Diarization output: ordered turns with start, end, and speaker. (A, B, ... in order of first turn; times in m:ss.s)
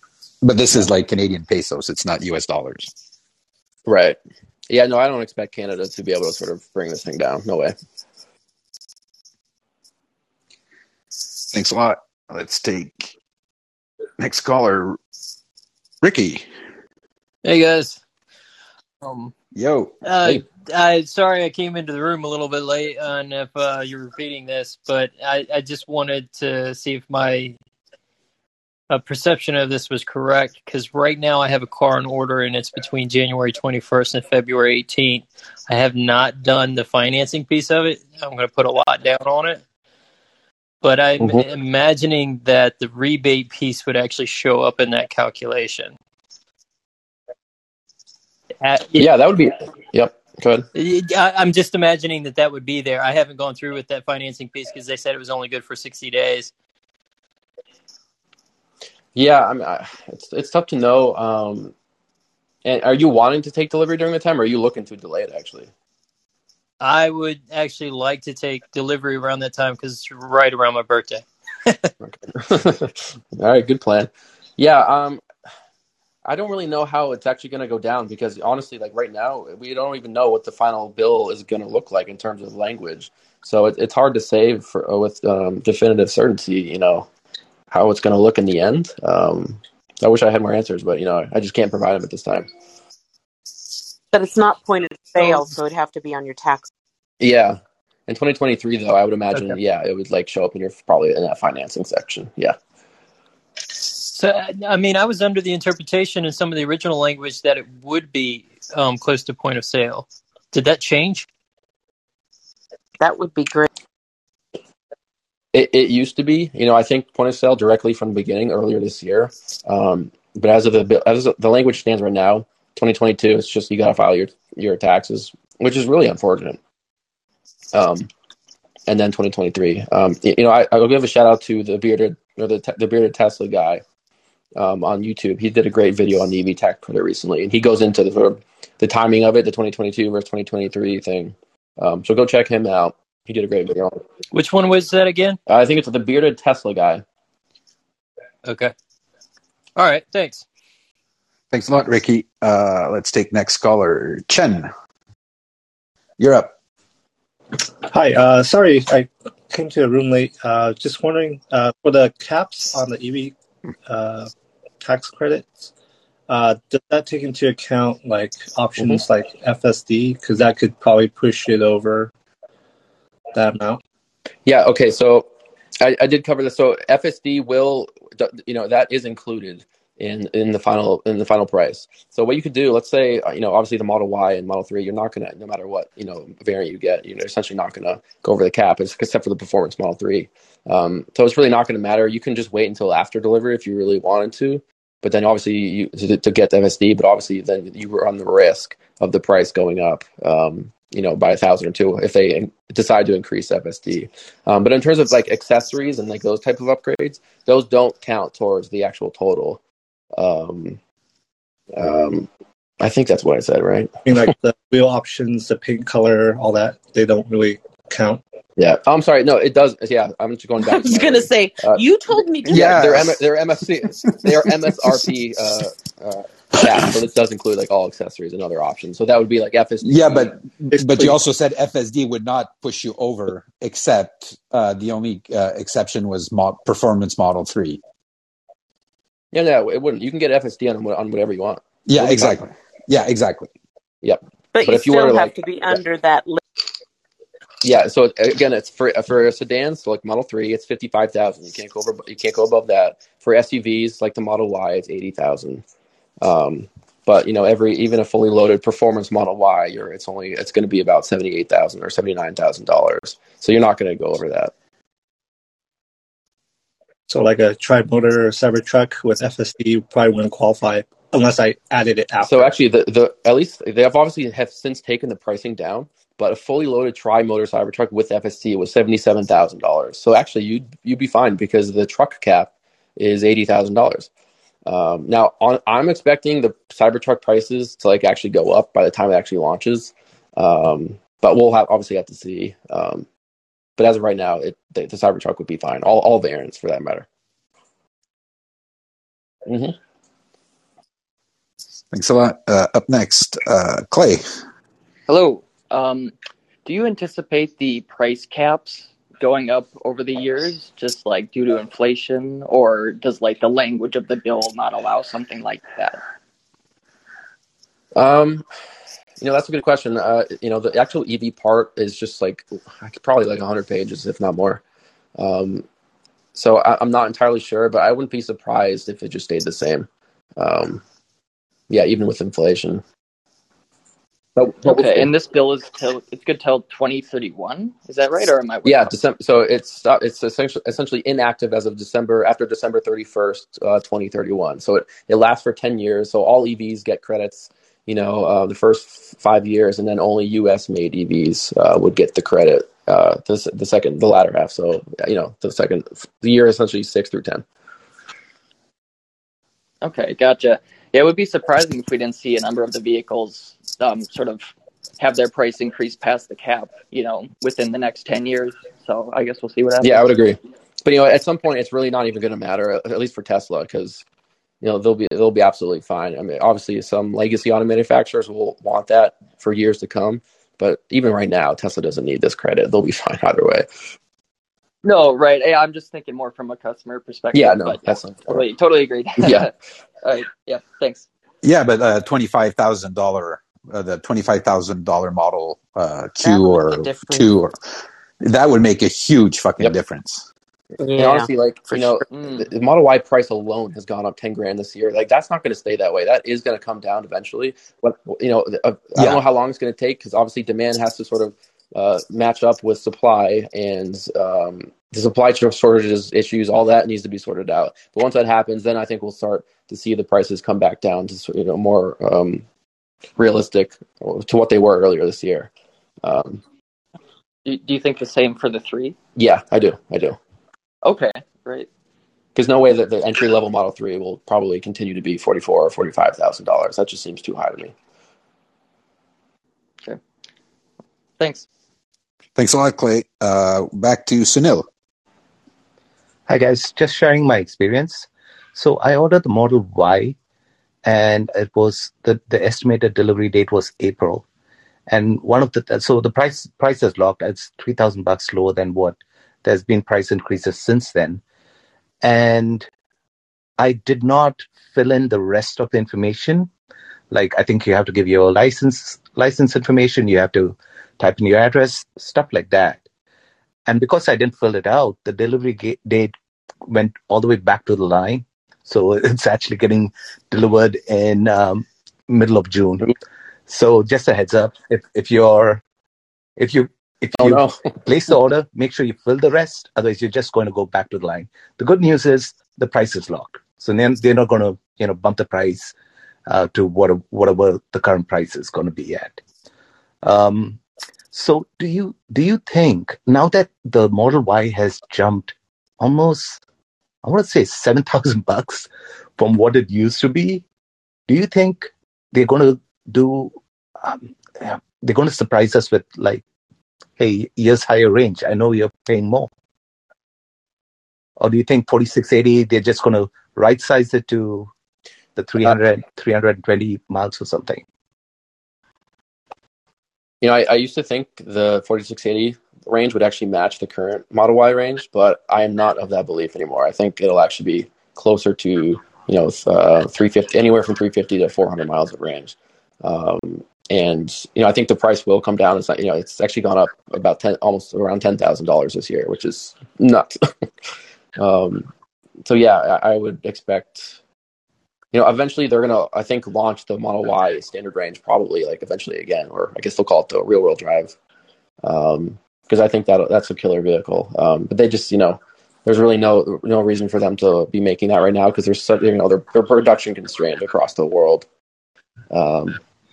0:00.4-0:02.9 A
0:03.9-0:04.2 B
0:04.7-0:07.8 B
0:11.5-0:13.1 A
0:14.2-0:15.0 A
0:16.0-0:16.5 A
0:17.4-0:18.0 C
0:19.0-0:19.3 C
0:19.5-0:19.9 A
0:20.0-0:27.6 C
0:28.9-0:39.6 C
0:40.8-0:45.9 C
0:41.2-0:41.5 B
0:48.6-0:49.1 C
0:49.0-0:50.7 B
0:50.8-0:56.5 C
0:59.2-1:01.7 B
1:02.6-1:05.7 B
1:06.8-1:11.9 C
1:12.0-1:15.2 B
1:16.2-1:27.1 B
1:27.7-1:32.5 B
1:34.1-1:36.7 D
1:37.2-1:42.6 B
1:44.1-1:51.3 C
1:53.0-1:53.7 D
1:55.5-2:06.6 B
2:07.7-2:08.1 B
2:08.9-2:13.8 B
2:14.6-2:24.0 B
2:24.3-2:25.4 C
2:25.5-2:27.0 B
2:28.4-2:28.7 C
2:29.8-2:30.4 C
2:31.5-2:34.7 A
2:36.2-2:36.5 A
2:37.9-2:43.4 E
2:43.9-2:45.7 E
2:46.3-2:52.1 E
2:48.8-2:49.0 B
2:53.3-2:53.8 E
2:54.5-2:55.3 B
2:55.8-3:29.6 B
3:30.2-3:30.8 B
3:31.8-3:32.3 B
3:32.8-3:33.9 B
3:34.1-3:38.2 E
3:38.6-3:41.8 B
3:40.6-3:42.8 D
3:42.4-3:43.2 A
3:42.5-3:50.4 B
3:44.0-3:44.3 A
3:49.8-3:57.8 A
3:59.3-4:02.4 B
4:01.9-4:03.5 A
4:04.0-4:05.8 B
4:04.5-4:06.4 D
4:07.6-4:15.6 B
4:16.2-4:24.5 B
4:27.1-4:32.6 E
4:32.2-4:44.1 B
4:44.7-4:53.1 B
4:53.8-4:57.1 B
4:59.5-4:59.8 B
5:01.9-5:04.2 A
5:05.1-5:06.1 F
5:06.6-5:16.0 F
5:18.0-5:18.4 B
5:19.2-5:24.6 B
5:25.2-5:25.6 B
5:26.4-5:30.8 B
5:31.7-5:32.8 B
5:34.4-5:35.1 B
5:34.6-5:39.0 F
5:38.6-5:57.4 B
5:59.8-6:10.1 F
6:09.8-6:14.0 B
6:14.6-6:23.7 B
6:24.8-6:31.1 F
6:27.3-6:28.5 B
6:29.2-6:29.5 B
6:31.4-6:37.6 A
6:36.2-6:37.3 D
6:38.2-6:40.3 A
6:40.8-6:41.8 D
6:41.0-7:02.4 B
6:42.1-6:42.5 F
7:03.2-7:05.5 B
7:06.0-7:06.4 B
7:07.4-7:09.0 F
7:09.2-7:10.2 B
7:10.8-7:11.7 F
7:12.4-7:17.7 B
7:21.2-7:21.4 F
7:22.4-7:24.7 A
7:26.3-7:30.2 G
7:30.8-7:34.2 G
7:34.9-7:41.2 G
7:42.0-7:42.7 G
7:43.6-7:46.5 G
7:47.1-7:52.8 G
7:53.7-7:56.1 G
7:56.7-8:03.0 G
8:03.5-8:05.6 G
8:06.4-8:15.7 G
8:07.2-8:07.6 B
8:16.3-8:19.2 G
8:20.0-8:20.6 G
8:21.1-8:26.4 G
8:27.0-8:30.4 G
8:31.1-8:36.2 G
8:37.0-8:39.3 G
8:41.2-8:44.5 G
8:45.2-8:47.6 G
8:50.2-9:10.2 B
9:11.2-9:11.7 B
9:12.2-9:14.0 B
9:14.9-9:21.0 B
9:21.6-9:31.3 B
9:32.1-9:32.6 B